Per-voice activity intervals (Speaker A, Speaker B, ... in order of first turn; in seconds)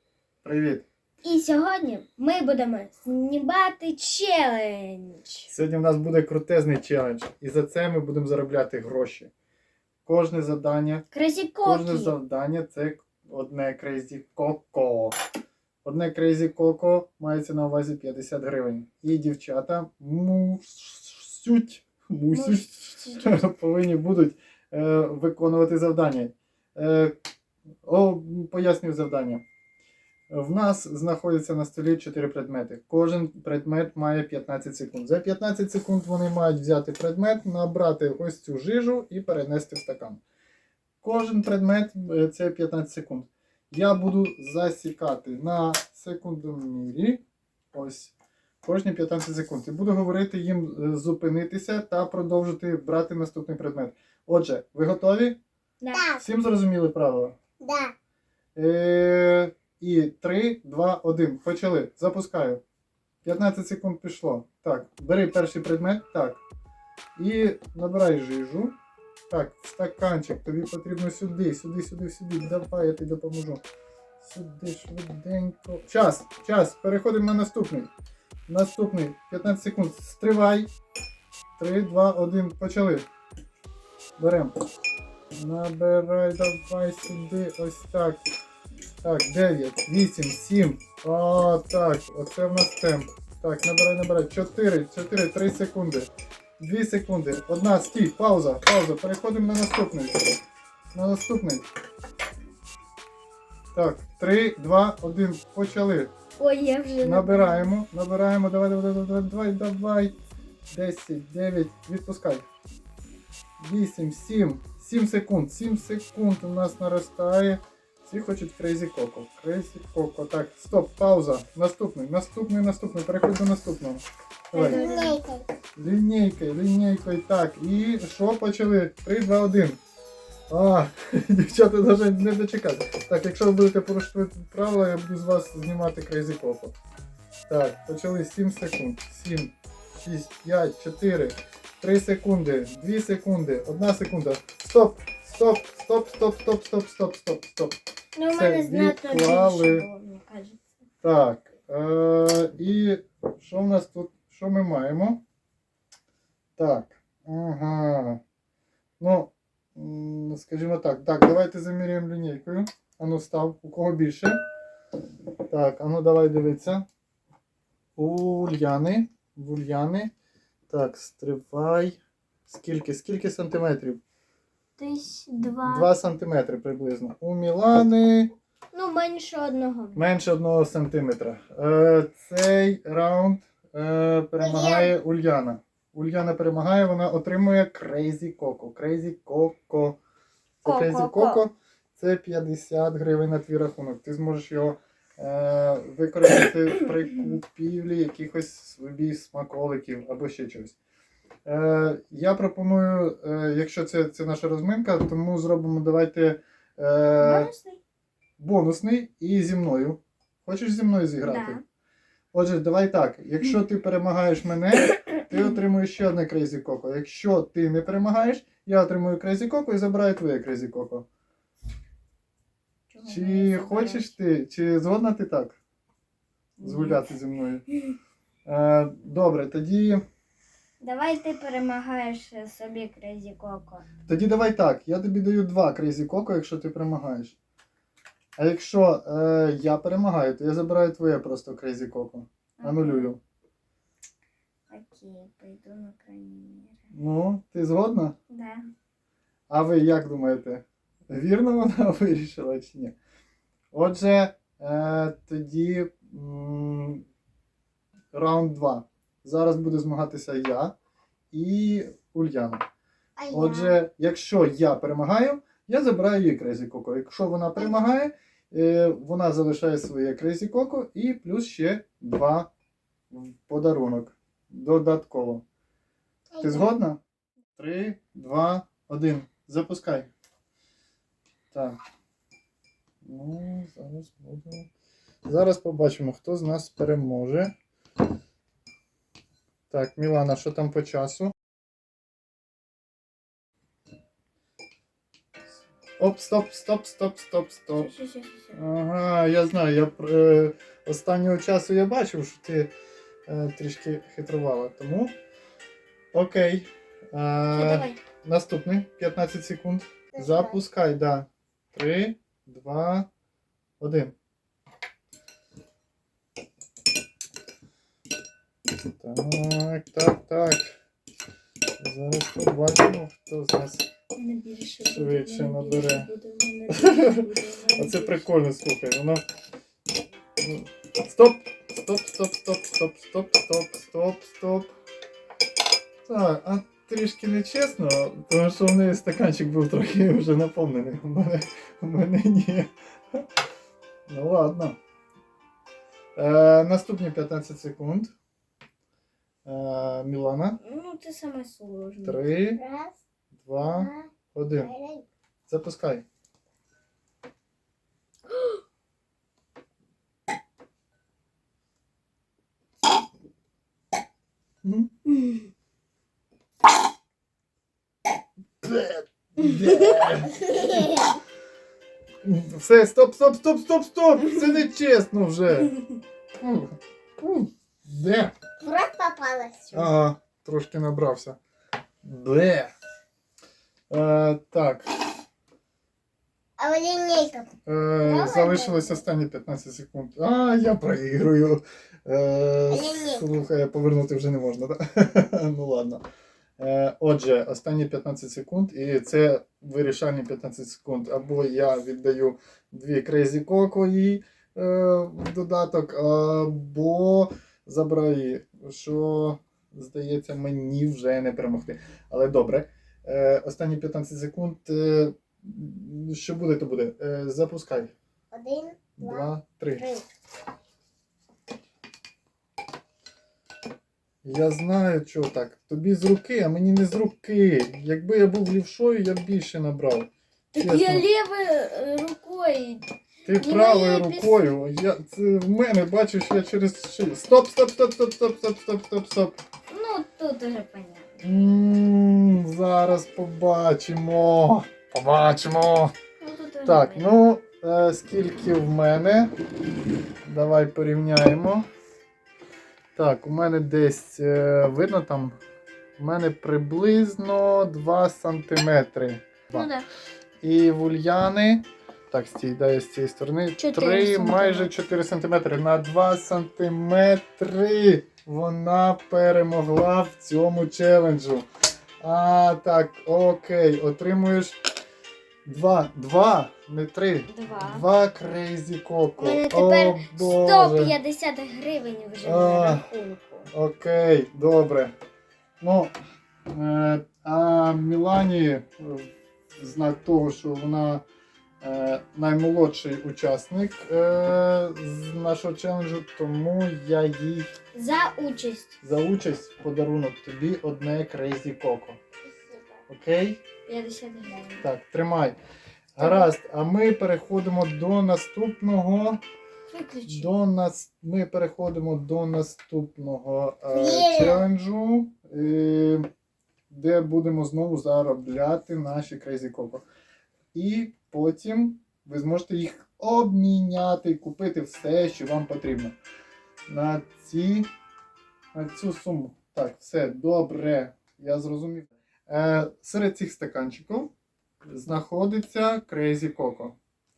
Speaker A: 0.4-0.8, 5.5-9.3, 10.1-11.1, 11.6-15.2, 15.8-27.1, 27.8-29.4, 30.3-40.2, 41.0-55.4, 56.2-57.4, 58.5-62.6, 63.2-66.4, 67.2-68.7, 69.3-73.6, 74.2-77.9, 78.5-80.7, 81.6-83.1, 84.2-84.5, 85.4-88.2, 89.0-100.4, 100.9-101.7, 103.7-106.1, 107.0-110.1, 110.7-112.5, 113.6-124.8, 125.8-129.8, 130.5-136.7, 137.5-147.8, 148.3-149.9, 151.0-155.2, 156.6-158.2, 159.0-164.4, 165.5-166.9, 168.0-170.1, 170.7-174.0, 175.4-178.3, 180.0-190.0, 190.6-200.8, 201.4-207.5, 208.4-211.6, 212.3-221.1, 223.1-225.6, 226.6-227.7, 228.4-230.0, 234.1-237.4, 238.4-243.2, 246.9-248.2, 249.5-253.0, 253.7-257.0, 258.1-260.8, 261.3-262.6, 263.3-272.5, 273.1-275.4, 276.4-277.0, 277.6-280.1, 281.5-281.8, 283.0-284.7, 285.3-287.5, 289.7-291.3, 296.0-297.9, 298.5-302.7, 303.3-305.1, 306.1-313.1, 313.8-314.1, 319.0-320.7, 321.8-323.9, 324.8-326.1, 326.7-329.2, 330.4-334.7, 336.1-343.2, 344.1-344.8, 346.2-348.1, 349.4-350.6, 352.0-352.6, 353.4-354.7, 355.5-356.0, 364.6-364.9, 368.6-370.4, 372.2-375.7, 376.4-378.3, 379.7-381.4, 382.0-382.7, 383.9-384.9, 387.7-396.0, 396.6-417.9, 419.0-419.9, 424.2-431.1, 433.2-439.4, 441.2-445.9, 446.7-449.3, 450.2-451.7, 453.0-455.4, 456.0-459.7, 460.4-471.4, 472.0-474.6, 475.4-480.9, 482.2-482.9, 483.5-484.9, 485.6-485.9, 486.5-491.0, 491.6-497.5, 498.8-502.0, 502.9-503.4, 504.6-505.4, 505.9-509.2, 510.1-516.1, 516.7-519.8, 520.5-526.0, 526.7-527.7, 528.5-534.1, 534.6-536.8
Speaker B: 1.2-5.5, 11.1-12.2, 22.3-23.4, 55.8-56.1, 106.4-107.7, 124.5-125.2, 148.2-150.7, 174.8-175.9, 178.7-180.0, 190.6-191.4, 207.2-207.8, 211.2-211.6, 222.9-224.2, 226.6-227.1, 230.8-233.9, 242.6-243.1, 244.7-246.8, 248.3-248.7, 297.8-298.6, 307.5-308.0, 324.2-328.3, 350.6-352.2, 358.3-358.6, 365.1-365.4, 369.5-370.0, 430.5-432.8, 433.4-434.5, 439.7-441.2, 446.2-447.1, 459.5-459.9, 463.6-464.7, 477.3-477.9, 479.2-483.5, 497.7-498.8, 503.7-504.6, 506.0-506.3, 509.7-510.3
Speaker C: 55.9-56.2, 57.6-57.9, 124.6-125.5, 184.4-184.9, 263.2-263.8, 276.3-276.7, 310.1-310.6, 352.6-353.0, 353.8-355.1, 370.3-371.1, 378.6-379.9, 386.6-387.5, 388.0-389.0, 392.7-393.2, 418.3-420.0, 502.3-502.8, 513.7-514.5